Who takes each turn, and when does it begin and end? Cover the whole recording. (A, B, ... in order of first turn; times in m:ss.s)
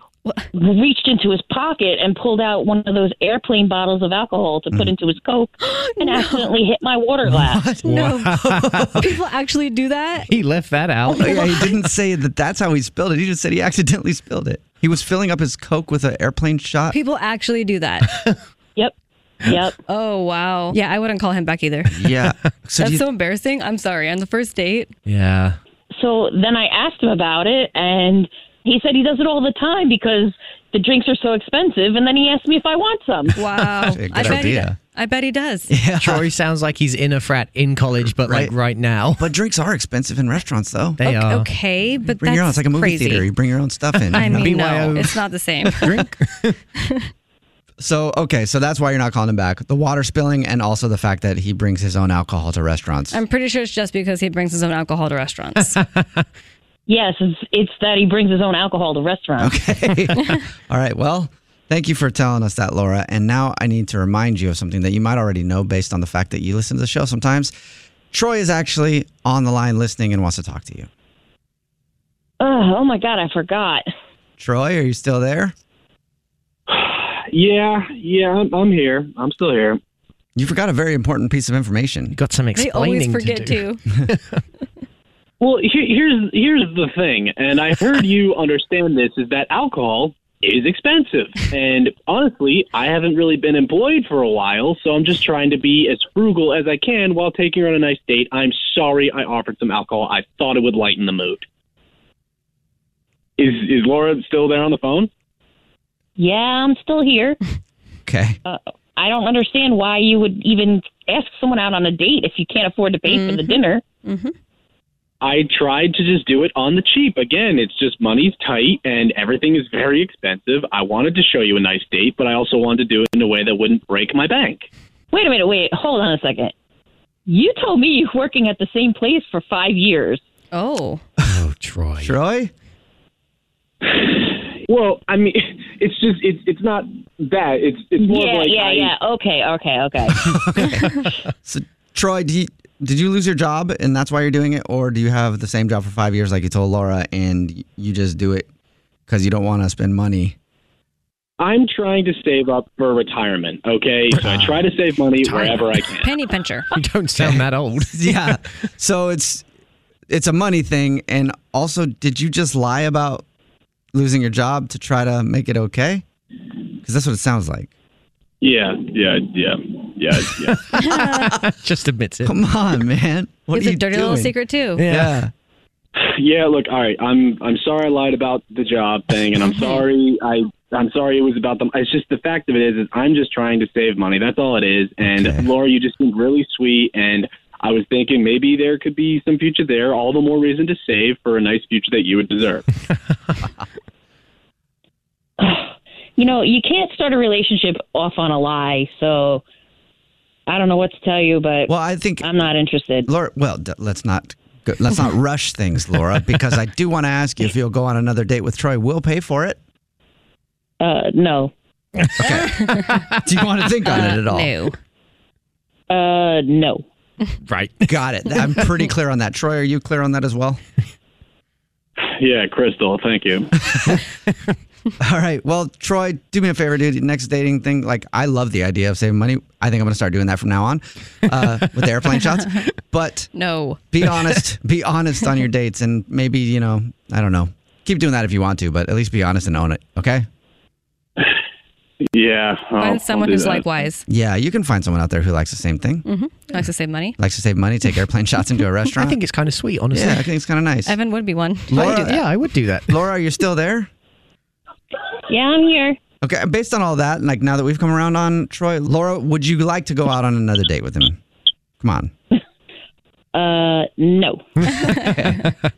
0:00.5-0:07.7 A
0:05.6-0:06.5 B
0:07.2-0:09.1 C
0:07.8-0:09.0 D
0:07.9-0:08.3 B
0:09.0-0:10.3 B
0:10.2-0:11.3 D
0:11.1-0:11.5 B
0:11.2-0:17.0 C
0:16.9-0:18.1 B
0:18.0-0:18.4 D
0:18.8-0:19.8 A
0:19.9-0:21.9 B
0:21.9-0:23.0 C
0:22.8-0:24.9 B
0:25.0-0:25.6 D
0:25.9-0:33.4 A
0:33.4-0:35.8 B
0:33.6-0:34.8 C
0:34.1-0:34.5 D
0:35.7-0:36.3 C
0:36.0-0:39.3 D
0:38.2-0:38.5 C
0:39.2-0:41.0 C
0:41.0-0:41.5 D
0:41.0-0:43.3 B
0:42.0-0:45.1 C
0:44.1-0:46.6 D
0:44.1-0:46.0 B
0:47.8-0:53.2 C
0:53.1-0:55.8 B
0:55.8-0:56.2 D
0:56.9-0:59.6 A
0:59.4-1:07.5 C
1:08.1-1:10.9 C
1:12.4-1:13.9 A
1:14.4-1:15.5 C
1:16.7-1:19.8 E
1:20.4-1:22.2 C
1:22.1-1:24.4 D
1:22.5-1:23.9 B
1:25.4-1:41.4 E
1:43.4-1:45.1 E
1:46.2-1:47.4 A
1:48.1-1:48.4 C
1:48.4-1:53.8 A
1:53.1-1:54.3 B
1:55.2-2:04.7 E
2:05.1-2:06.5 A
2:07.2-2:10.2 A
2:10.5-2:11.0 B
2:11.2-2:12.1 D
2:12.0-2:12.5 C
2:13.8-2:18.9 E
2:18.0-2:20.1 A
2:20.1-2:28.5 C
2:29.1-2:30.4 C
2:31.4-2:36.2 E
2:34.1-2:34.4 D
2:34.2-2:34.6 C
2:35.1-2:36.0 D
2:36.0-2:36.7 B
2:36.7-2:38.4 D
2:37.2-2:39.4 C
2:40.1-2:43.2 C
2:43.9-2:46.0 C
2:46.8-2:47.7 C
2:48.4-2:50.7 E
2:50.7-2:51.4 B
2:50.8-2:51.0 C
2:51.1-2:52.4 D
2:52.2-2:55.3 C
2:53.5-2:54.8 B
2:54.8-2:55.2 D
2:56.0-3:12.6 E
2:59.4-2:59.8 B
3:05.0-3:05.5 C
3:15.4-3:19.4 A
3:20.5-3:23.1 A
3:21.7-3:22.5 C
3:23.0-3:29.6 C
3:30.8-3:31.5 A
3:32.0-3:33.2 D
3:32.2-3:34.6 C
3:32.4-3:33.0 B
3:33.8-3:34.8 B
3:35.9-3:36.8 A
3:37.4-3:38.0 D
3:37.9-3:40.6 C
3:42.0-3:43.5 E
3:43.6-3:44.0 C
3:43.9-3:44.5 D
3:45.0-3:53.3 C
3:53.3-3:53.8 B
3:53.9-4:00.2 C
4:02.0-4:03.8 E
4:02.8-4:04.0 B
4:04.1-4:06.0 C
4:06.0-4:07.2 B
4:07.2-4:09.2 C
4:09.0-4:10.2 D
4:09.9-4:11.0 C
4:10.9-4:12.2 B
4:11.7-4:12.3 C
4:11.7-4:13.0 D
4:12.9-4:13.9 C
4:15.3-4:16.0 A
4:16.2-4:21.2 C
4:21.8-4:22.1 C
4:23.3-4:24.5 A
4:24.7-4:25.5 D
4:24.9-4:25.5 C